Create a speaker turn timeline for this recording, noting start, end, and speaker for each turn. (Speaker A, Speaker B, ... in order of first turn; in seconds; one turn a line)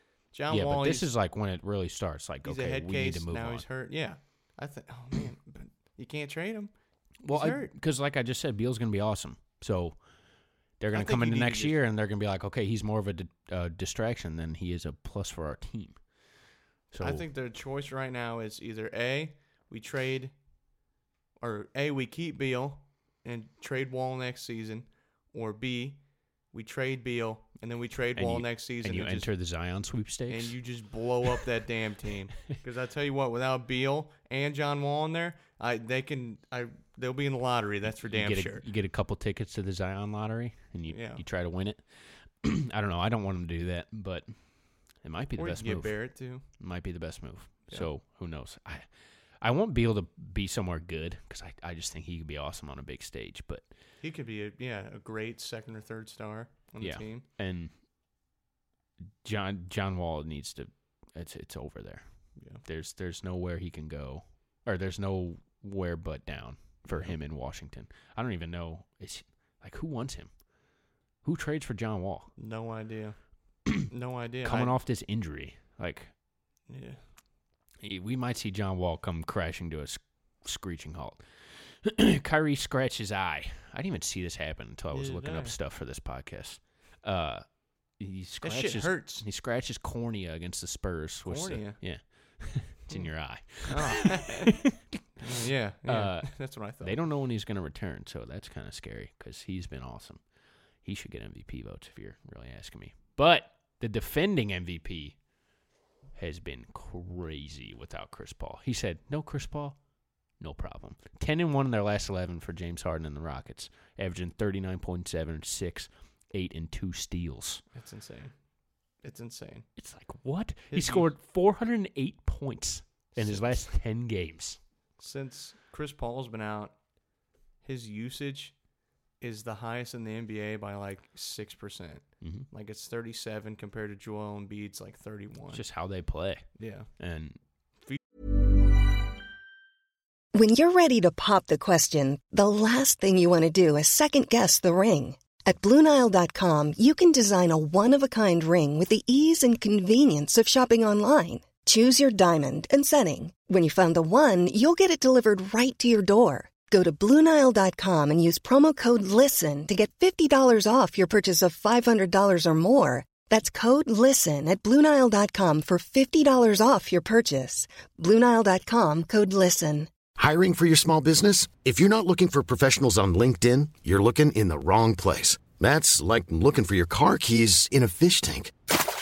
Speaker A: 0.3-1.1
Speaker B: 0.5-3.6
Speaker A: 2.4-6.7
Speaker B: 7.2-10.0
Speaker A: 7.3-7.7
Speaker B: 10.8-16.0
Speaker A: 10.9-11.8
Speaker B: 16.9-17.2
Speaker A: 17.0-20.3
Speaker A: 21.4-26.0
Speaker A: 26.5-29.3
Speaker B: 28.2-30.6
Speaker A: 30.3-38.6
Speaker B: 38.0-41.8
Speaker A: 40.9-41.2
Speaker B: 42.4-44.3
Speaker B: 45.0-48.9
Speaker A: 45.4-46.4
Speaker B: 49.4-53.6
Speaker A: 54.0-57.2
Speaker B: 56.8-57.7
Speaker B: 59.2-62.0
Speaker A: 62.4-62.6
Speaker B: 62.6-70.3
Speaker A: 66.9-67.2
Speaker B: 71.2-72.3
Speaker A: 72.4-73.2
Speaker A: 73.8-74.7
Speaker B: 74.4-76.1
Speaker A: 76.7-77.0
Speaker B: 77.8-81.2
Speaker B: 81.8-94.7
Speaker A: 84.9-85.5
Speaker A: 88.4-89.2
Speaker A: 91.3-91.8
Speaker A: 93.7-94.5
Speaker A: 95.2-97.0
Speaker B: 95.9-100.2
Speaker B: 100.8-105.2
Speaker B: 106.2-109.8
Speaker B: 110.4-117.6
Speaker A: 117.7-118.3
Speaker A: 119.0-119.7
Speaker B: 119.8-124.6
Speaker A: 120.7-121.1
Speaker A: 123.2-123.6
Speaker A: 125.0-126.8
Speaker A: 127.6-128.5
Speaker A: 129.2-135.6
Speaker B: 132.2-132.5
Speaker B: 135.5-136.5
Speaker A: 136.6-136.9
Speaker B: 137.0-137.4
Speaker C: 140.3-169.9
Speaker D: 170.2-178.6